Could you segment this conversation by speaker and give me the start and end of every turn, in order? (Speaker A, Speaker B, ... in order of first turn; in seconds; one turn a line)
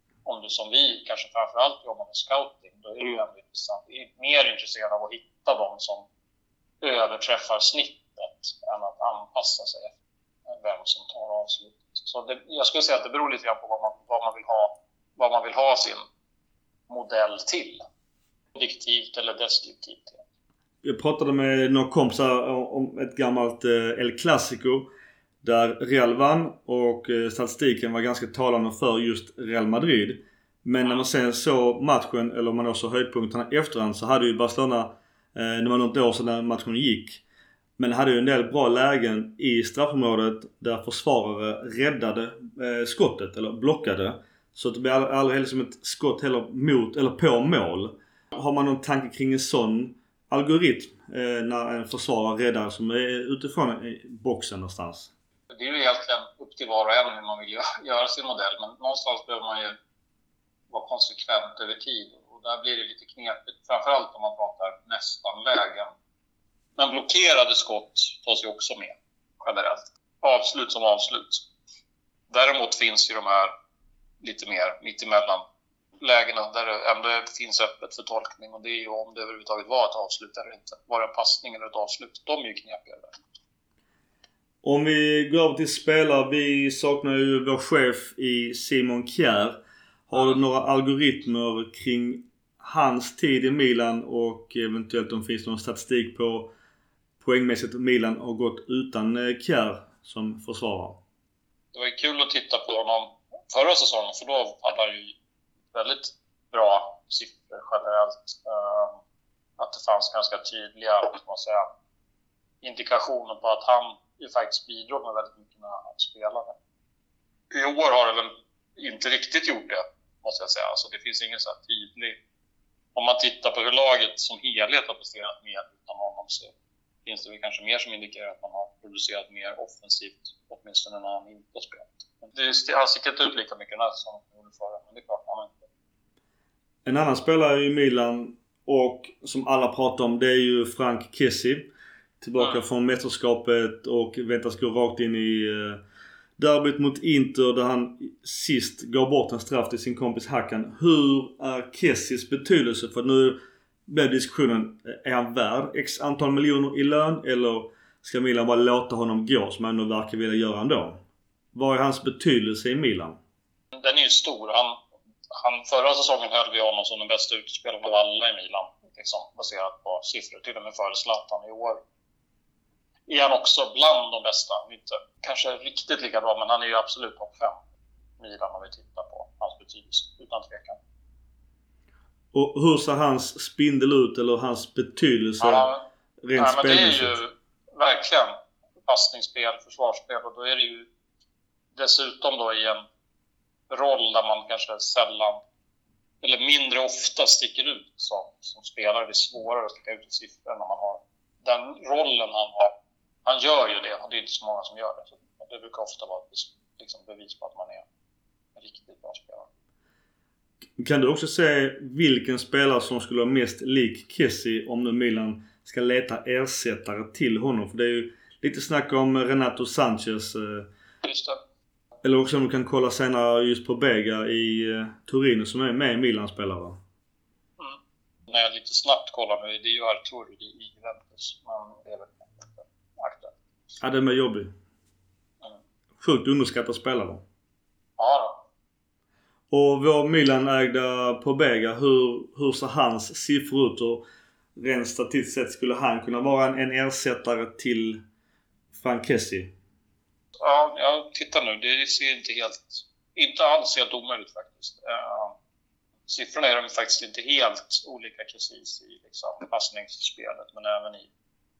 Speaker A: 0.2-6.1
Speaker A: 6.8-9.9
Speaker A: 10.5-16.1
Speaker A: 16.9-17.8
Speaker A: 18.6-20.2
Speaker B: 20.8-24.9
Speaker B: 25.4-37.2
Speaker B: 37.8-55.1
Speaker A: 55.5-59.8
Speaker A: 60.7-65.9
Speaker A: 66.8-71.4
Speaker A: 72.3-73.5
Speaker A: 74.2-75.5
Speaker A: 76.0-83.2
Speaker B: 84.6-96.5
Speaker B: 97.2-101.0
Speaker A: 101.7-105.2
Speaker A: 105.7-109.0
Speaker A: 109.6-111.7
Speaker A: 112.6-116.6
Speaker A: 117.5-122.2
Speaker A: 123.0-126.5
Speaker A: 127.0-135.7
Speaker B: 136.8-145.8
Speaker A: 142.4-142.6
Speaker B: 146.4-161.0
Speaker B: 161.5-163.2
Speaker A: 163.7-164.8
Speaker A: 165.3-171.8
Speaker A: 173.1-177.6
Speaker A: 178.2-180.8
Speaker B: 182.3-185.7
Speaker A: 185.4-190.9
Speaker B: 186.2-187.2
Speaker A: 191.8-192.8
Speaker A: 193.7-195.4
Speaker A: 196.2-202.7
Speaker A: 203.2-207.8
Speaker A: 208.6-209.5
Speaker B: 210.8-220.7
Speaker A: 221.0-221.4
Speaker B: 222.0-226.8
Speaker A: 227.6-233.4
Speaker B: 233.8-234.5
Speaker B: 236.0-237.2
Speaker A: 238.0-238.4
Speaker B: 239.5-244.1
Speaker B: 244.6-248.0
Speaker B: 248.8-249.5
Speaker A: 250.4-255.3
Speaker A: 256.1-261.1